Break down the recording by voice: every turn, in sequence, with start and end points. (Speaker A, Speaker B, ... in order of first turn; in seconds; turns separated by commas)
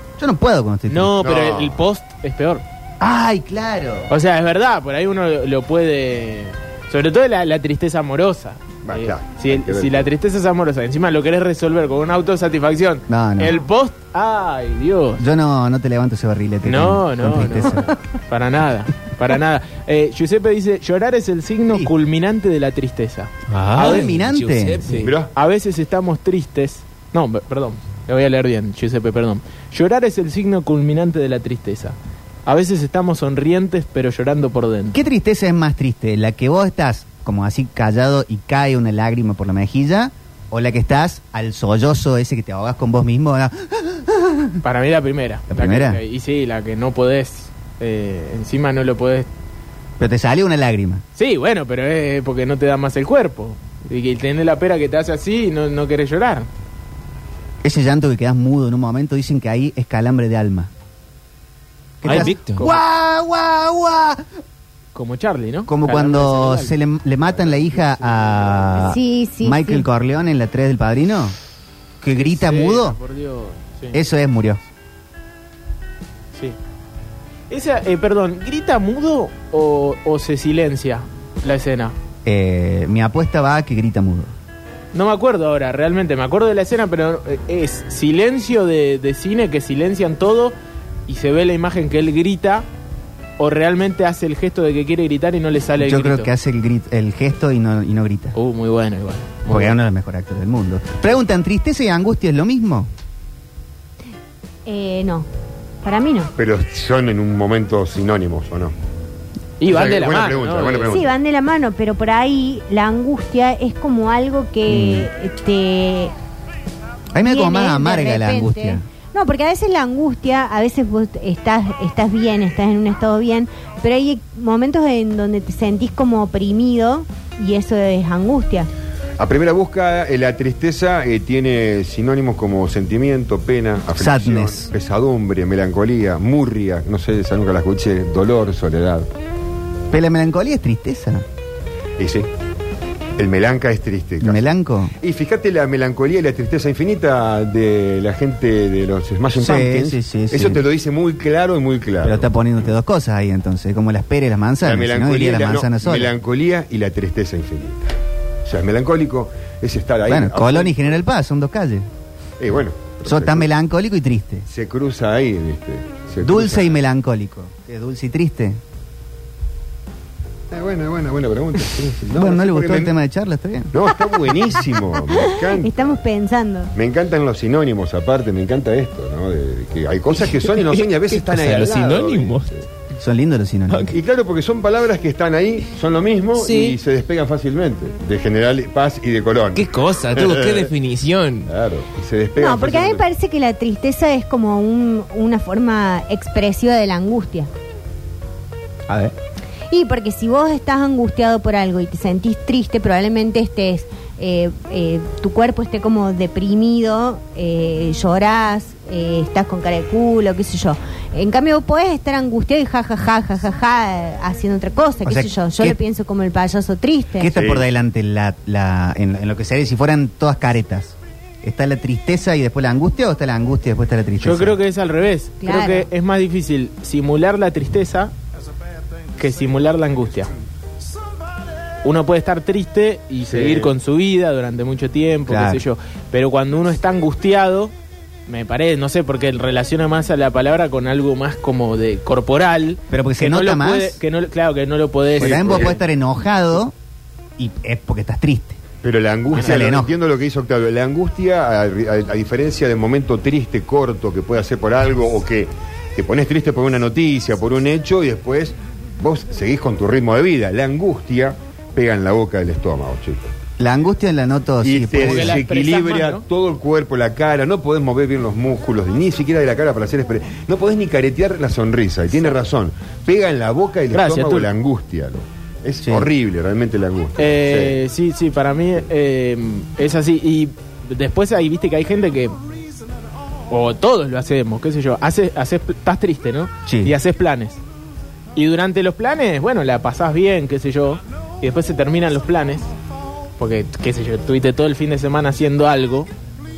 Speaker A: 0.2-1.2, Speaker B: 0.9-2.6, Speaker C: 1.2-1.8, Speaker A: 3.0-4.1, Speaker B: 4.1-15.2, Speaker C: 8.8-10.1, Speaker A: 13.1-13.6, Speaker A: 15.2-17.9, Speaker B: 16.6-23.3, Speaker D: 23.5-25.1, Speaker A: 23.7-24.9, Speaker B: 24.9-31.9, Speaker C: 25.0-25.3, Speaker B: 32.5-35.0, Speaker A: 34.9-44.6, Speaker B: 44.6-49.3, Speaker A: 45.5-46.0, Speaker A: 50.0-51.0, Speaker B: 51.1-56.5, Speaker A: 57.6-60.7, Speaker A: 62.0-64.2, Speaker D: 62.0-62.7, Speaker B: 62.1-62.7, Speaker B: 65.0-66.8, Speaker A: 65.7-71.4, Speaker E: 68.8-69.8, Speaker A: 72.0-73.0, Speaker B: 72.2-74.0, Speaker A: 73.9-74.6, Speaker B: 77.5-82.0, Speaker A: 82.2-84.3, Speaker B: 84.9-90.5, Speaker B: 91.1-92.7, Speaker B: 93.4-96.3, Speaker A: 95.8-98.3, Speaker B: 98.3-99.8, Speaker A: 99.5-102.9, Speaker E: 104.7-105.3, Speaker E: 105.8-106.3, Speaker C: 106.4-108.8, Speaker B: 109.6-111.1, Speaker C: 109.6-111.2, Speaker E: 110.9-116.1, Speaker A: 114.7-115.1, Speaker A: 117.2-118.8, Speaker E: 117.2-128.7, Speaker C: 129.2-139.1, Speaker A: 133.9-134.7, Speaker A: 139.9-141.2, Speaker C: 142.0-142.3, Speaker C: 143.2-152.3, Speaker A: 144.2-145.0, Speaker A: 149.3-150.7, Speaker A: 152.0-156.1, Speaker C: 154.6-160.8, Speaker A: 160.1-161.9, Speaker C: 162.4-163.5, Speaker A: 163.1-164.5, Speaker C: 164.5-166.8, Speaker A: 166.2-168.6, Speaker C: 170.5-172.9, Speaker A: 172.1-173.8, Speaker C: 173.7-176.0, Speaker E: 175.1-176.7, Speaker C: 176.8-182.7, Speaker D: 180.2-182.5, Speaker A: 183.0-183.9, Speaker D: 183.7-184.0, Speaker C: 183.9-190.7, Speaker D: 186.3-186.8, Speaker D: 189.6-191.5, Speaker C: 191.5-193.0, Speaker E: 192.4-197.5, Speaker E: 199.7-217.3, Speaker A: 215.1-215.8, Speaker A: 217.2-224.6, Speaker C: 217.3-217.7, Speaker B: 224.2-228.1, Speaker E: 225.4-225.9, Speaker B: 229.2-230.3, Speaker B: 231.8-237.7, Speaker C: 233.3-233.7, Speaker A: 235.3-235.6, Speaker B: 238.3-245.8, Speaker A: 242.9-244.0, Speaker A: 245.2-246.8, Speaker C: 245.2-245.8, Speaker A: 247.4-248.6, Speaker C: 248.8-263.3, Speaker A: 249.3-249.9, Speaker A: 263.6-265.4, Speaker C: 264.6-277.8, Speaker B: 265.0-266.2, Speaker B: 273.9-274.5, Speaker A: 275.8-276.1, Speaker B: 277.2-282.4, Speaker B: 283.5-287.6, Speaker A: 286.7-286.9, Speaker B: 288.4-292.7, Speaker B: 293.4-296.1